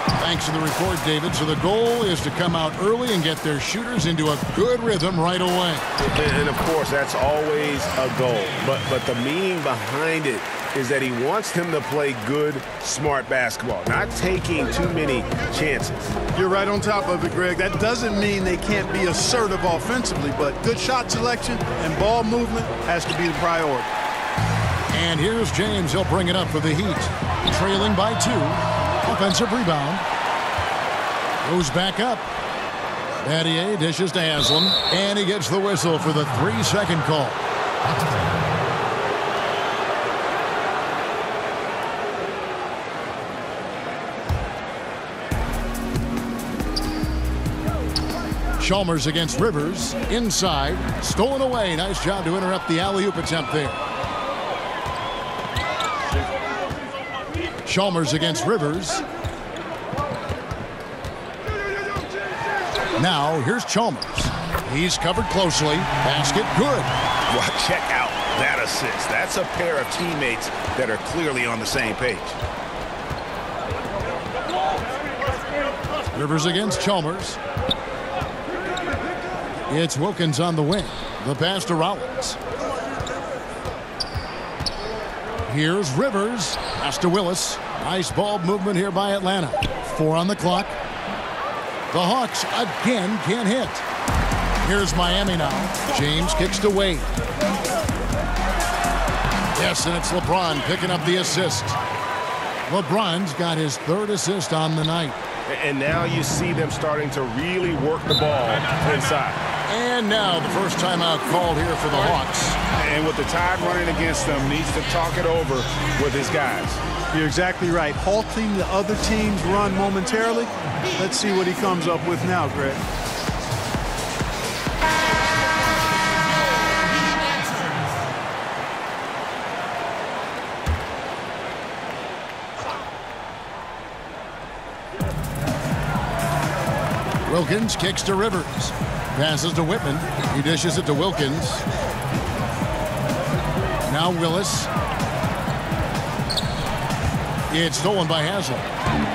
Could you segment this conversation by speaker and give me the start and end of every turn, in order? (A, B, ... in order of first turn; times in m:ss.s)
0:00.2-0:05.8 A
0:06.0-0:16.0 B
0:16.3-0:23.9 C
0:24.9-0:30.0 A
0:31.4-0:32.2 A
0:33.2-0:37.4 A
0:48.6-0:53.8 A
0:57.6-0:59.0 A
1:03.0-1:06.9 A
1:07.3-1:12.4 B
1:16.1-1:17.4 A
1:19.7-1:22.4 A
1:25.5-1:30.8 A
1:31.9-1:33.8 A
1:34.6-1:37.1 A
1:39.5-1:41.8 A
1:42.7-1:45.2 A
1:45.4-1:49.4 B
1:49.7-1:52.6 A
1:52.7-1:56.8 B
1:57.1-2:02.8 C
2:17.2-2:21.6 A
2:23.9-2:24.7 A
2:27.5-2:28.6 A